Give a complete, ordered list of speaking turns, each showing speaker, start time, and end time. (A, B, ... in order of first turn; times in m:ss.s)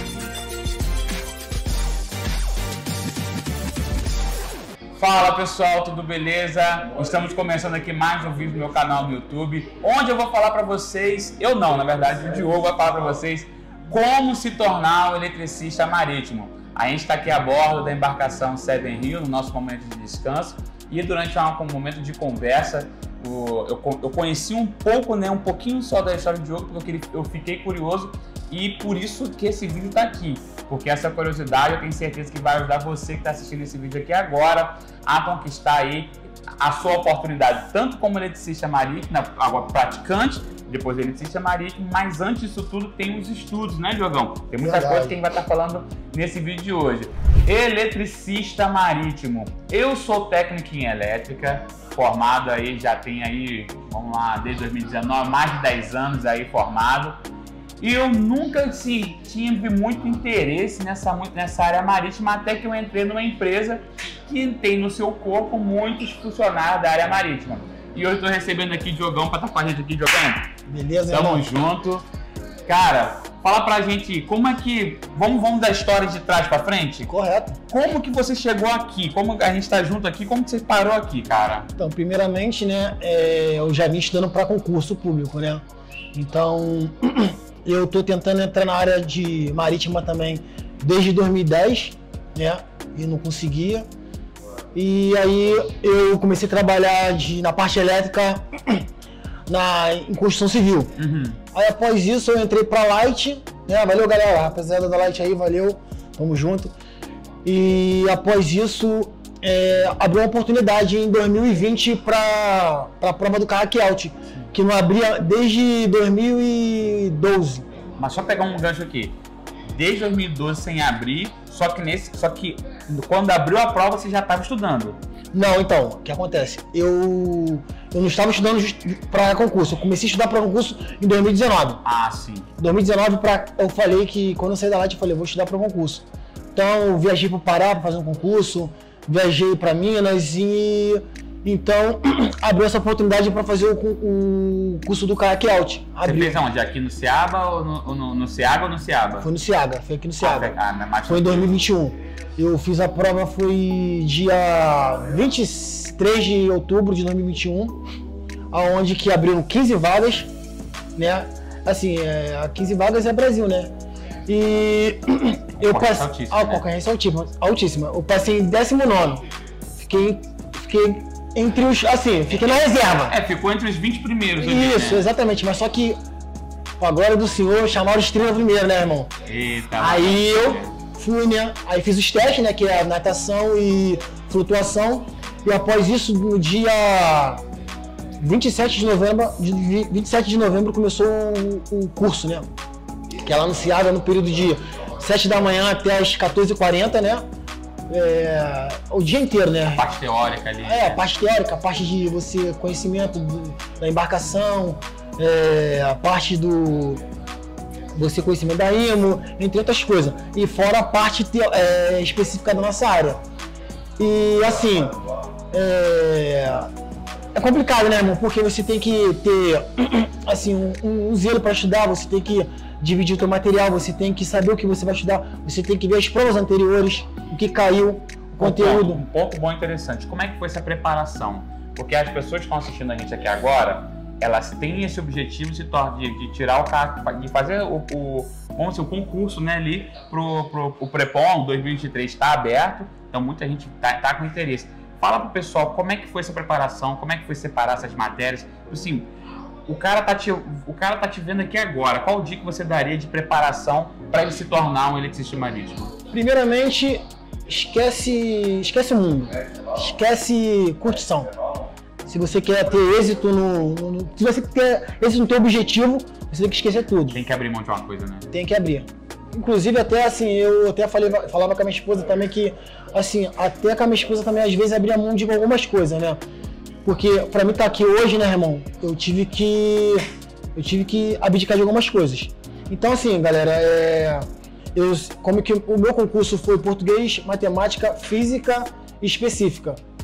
0:05.0-0:57.2 A
0:44.6-0:45.2 B
0:57.8-1:10.5 A
1:10.7-1:11.5 B
1:11.1-1:12.1 A
1:12.7-1:17.1 A
1:17.1-1:17.6 B
1:17.7-1:21.7 A
1:21.8-1:33.9 B
1:34.8-1:38.8 B
1:39.5-1:40.9 B
1:41.0-1:41.4 A
1:41.5-1:46.7 B
1:47.4-1:57.7 B
1:58.0-1:59.2 A
1:59.7-2:05.0 A
2:05.3-2:11.8 B
2:11.8-2:12.5 A
2:12.6-2:26.4 B
2:26.0-2:29.3 A
2:29.2-2:30.5 B
2:30.2-2:31.6 A
2:31.1-2:37.8 B
2:38.5-2:40.3 B
2:41.0-2:43.7 B
2:44.3-2:49.2 B
2:45.6-2:46.6 A
2:49.8-2:53.2 B
2:53.1-2:55.1 A
2:54.4-2:56.0 B
2:56.8-2:59.1 B
2:59.3-3:00.7 A
2:59.8-3:07.4 B
3:08.2-3:12.5 B
3:13.2-3:17.2 B
3:17.9-3:19.8 B
3:19.7-3:21.0 A
3:20.6-3:27.0 B
3:27.9-3:33.2 B
3:34.0-3:34.9 B
3:35.5-3:36.7 B
3:37.4-3:49.0 B
3:48.4-4:09.1 A
4:09.7-4:15.9 A
4:16.1-4:21.3 B
4:22.1-4:27.2 B
4:27.1-4:28.3 A
4:28.3-4:36.2 B
4:36.8-4:49.8 B